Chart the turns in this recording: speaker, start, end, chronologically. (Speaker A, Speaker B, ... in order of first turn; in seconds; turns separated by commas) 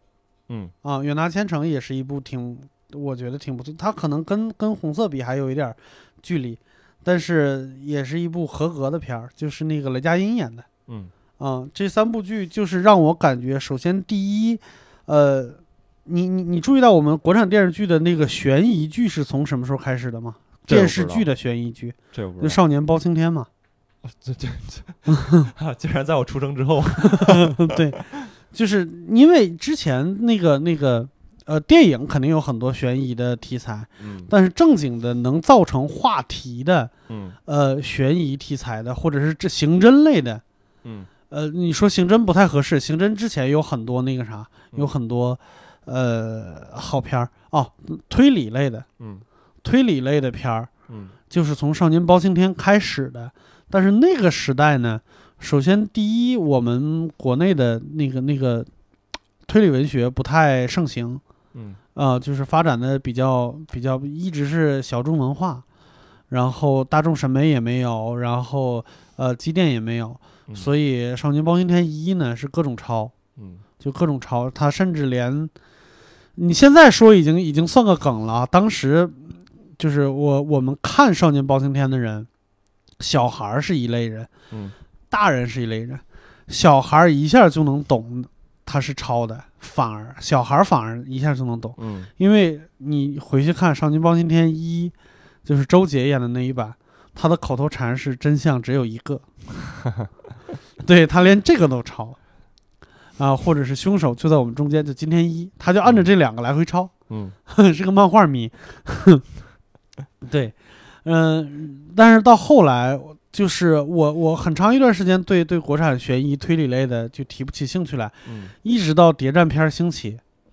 Speaker A: 0.5-0.7, Speaker B: 0.8-10.7, Speaker B: 11.4-23.5, Speaker A: 20.7-21.3, Speaker A: 22.1-22.6, Speaker A: 24.0-28.2, Speaker B: 25.1-25.5, Speaker B: 27.0-28.0, Speaker B: 28.5-36.9, Speaker A: 34.0-34.3, Speaker A: 37.1-37.4, Speaker B: 37.5-40.4, Speaker A: 40.8-41.1, Speaker B: 41.3-48.9, Speaker A: 49.0-49.2, Speaker B: 49.6-50.7, Speaker A: 50.9-51.1, Speaker B: 51.3-58.7, Speaker B: 59.5-61.2, Speaker A: 61.5-61.8, Speaker B: 61.9-65.6, Speaker B: 66.3-73.1, Speaker A: 73.4-73.6, Speaker B: 73.8-75.5, Speaker B: 76.4-82.3, Speaker B: 83.0-84.3, Speaker B: 85.1-94.9, Speaker A: 91.8-92.1, Speaker B: 95.5-99.2, Speaker B: 100.8-102.2, Speaker B: 103.2-106.9, Speaker A: 107.1-107.3, Speaker B: 107.5-109.2, Speaker B: 110.2-120.2, Speaker A: 118.2-118.5